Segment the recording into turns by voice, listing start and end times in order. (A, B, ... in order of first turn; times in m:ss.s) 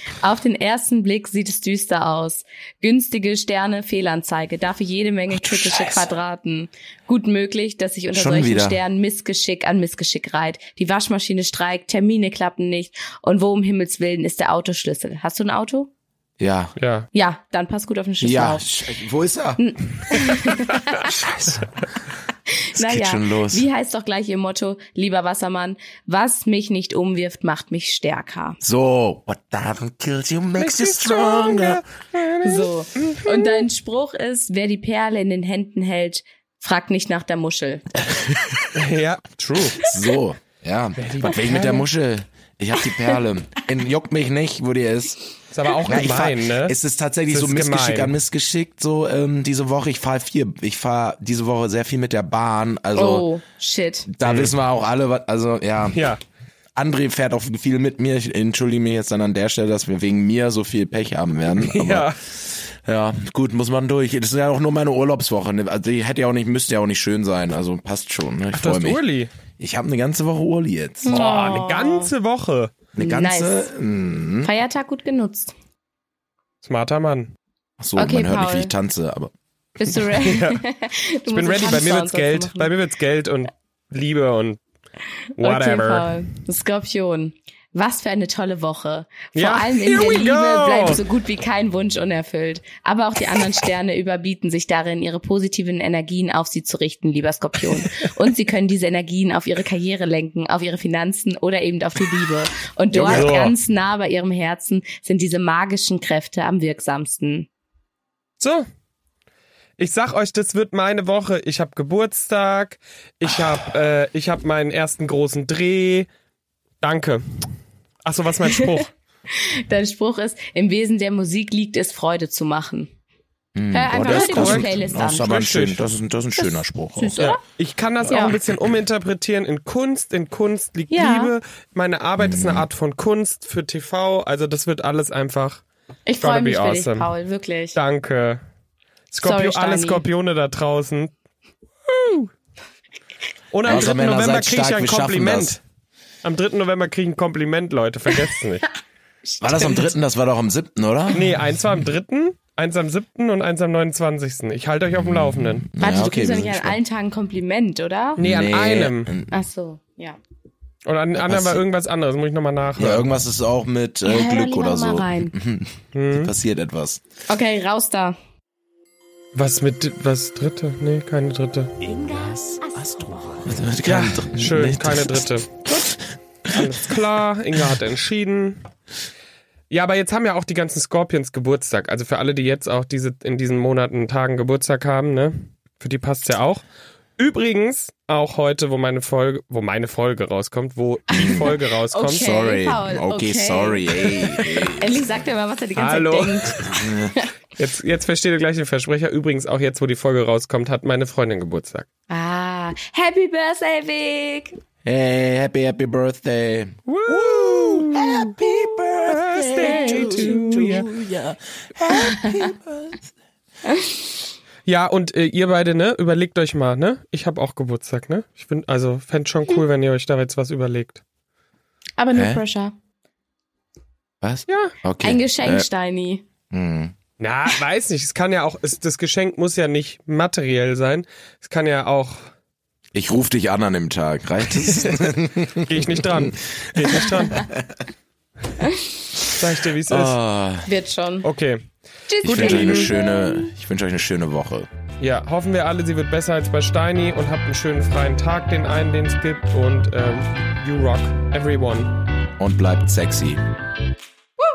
0:00.2-0:15.9 A
0:05.3-0:06.1 B
0:08.1-0:08.8 B
0:16.4-0:16.7 B
0:16.8-0:17.1 C
0:17.1-0:18.6 A
0:18.2-0:19.6 B
0:19.6-0:21.3 A
0:21.0-0:21.8 B
0:22.5-0:28.6 A
0:22.7-0:23.6 B
0:28.6-0:31.8 B
0:30.6-0:33.7 C
0:32.4-0:37.8 A
0:38.0-0:38.7 B
0:38.7-0:39.8 C
0:39.7-0:45.2 B
0:41.0-0:41.9 C
0:45.5-0:46.8 C
0:45.8-0:53.2 B
0:47.3-0:48.1 C
0:52.9-0:54.1 A
0:54.1-0:56.0 B
0:54.2-0:54.5 C
0:55.9-0:56.2 C
0:56.8-1:09.0 B
1:01.6-1:02.2 C
1:08.5-1:09.3 C
1:09.6-1:11.2 B
1:11.0-1:12.1 A
1:11.0-1:12.7 C
1:12.9-1:14.5 B
1:13.0-1:13.7 A
1:14.4-1:15.5 A
1:16.6-1:17.3 C
1:17.8-1:19.3 B
1:18.0-1:18.7 A
1:19.8-1:22.7 A
1:20.2-1:20.6 C
1:21.3-1:24.6 C
1:25.4-1:26.2 C
1:25.4-1:47.5 A
1:29.3-1:31.0 C
1:42.9-1:43.4 B
1:42.9-1:43.5 C
1:48.4-1:48.6 C
1:49.8-1:56.1 C
1:56.8-1:57.4 C
1:58.0-1:58.9 C
1:58.5-2:02.9 A
2:03.5-2:07.2 B
2:03.7-2:05.4 A
2:04.0-2:05.8 C
2:06.4-2:07.4 A
2:07.2-2:15.6 C
2:08.1-2:08.4 A
2:10.9-2:11.3 A
2:12.2-2:12.7 B
2:16.1-2:17.8 A
2:16.2-2:17.1 C
2:17.7-2:18.4 C
2:19.1-2:21.1 C
2:19.2-2:20.0 A
2:21.9-2:22.3 C
2:23.5-2:25.6 C
2:23.6-2:25.6 B
2:26.2-2:28.7 C
2:29.4-2:31.6 B
2:29.5-2:29.8 A
2:31.1-2:35.6 C
2:35.0-2:36.8 B
2:35.8-2:38.2 A
2:38.2-2:39.1 C
2:38.2-2:39.3 B
2:39.3-2:40.2 A
2:40.8-2:43.1 C
2:41.2-2:41.6 B
2:42.8-2:47.0 B
2:44.0-2:45.3 A
2:45.9-2:46.3 C
2:47.3-2:48.2 A
2:49.3-2:51.8 C
2:51.8-2:56.8 B
2:53.8-2:55.6 C
2:56.5-2:58.6 C
2:59.7-3:06.6 C
3:07.2-3:12.4 C
3:11.1-3:17.3 A
3:11.1-3:11.5 B
3:12.2-3:15.0 B
3:15.8-3:16.7 C
3:16.7-3:17.1 B
3:17.6-3:21.8 C
3:22.1-3:24.6 A
3:24.8-3:33.0 B
3:26.9-3:28.4 C
3:29.0-3:30.9 C
3:29.6-3:30.8 A
3:32.0-3:32.5 A
3:33.6-3:34.0 A
3:34.6-3:41.0 C
3:42.0-3:42.7 A
3:42.1-3:42.4 B
3:44.2-3:45.6 B
3:44.5-3:44.7 C
3:45.0-3:46.2 A
3:46.5-3:46.9 B
3:47.2-3:52.3 C
3:52.9-3:57.7 B
3:54.7-3:55.0 C
3:55.6-3:57.5 C
3:59.3-4:00.2 C
3:59.9-4:00.7 B
4:00.6-4:01.2 A
4:01.2-4:01.6 C
4:02.1-4:03.3 A
4:02.2-4:02.9 C
4:02.2-4:04.7 B
4:05.0-4:11.9 C
4:12.4-4:13.4 B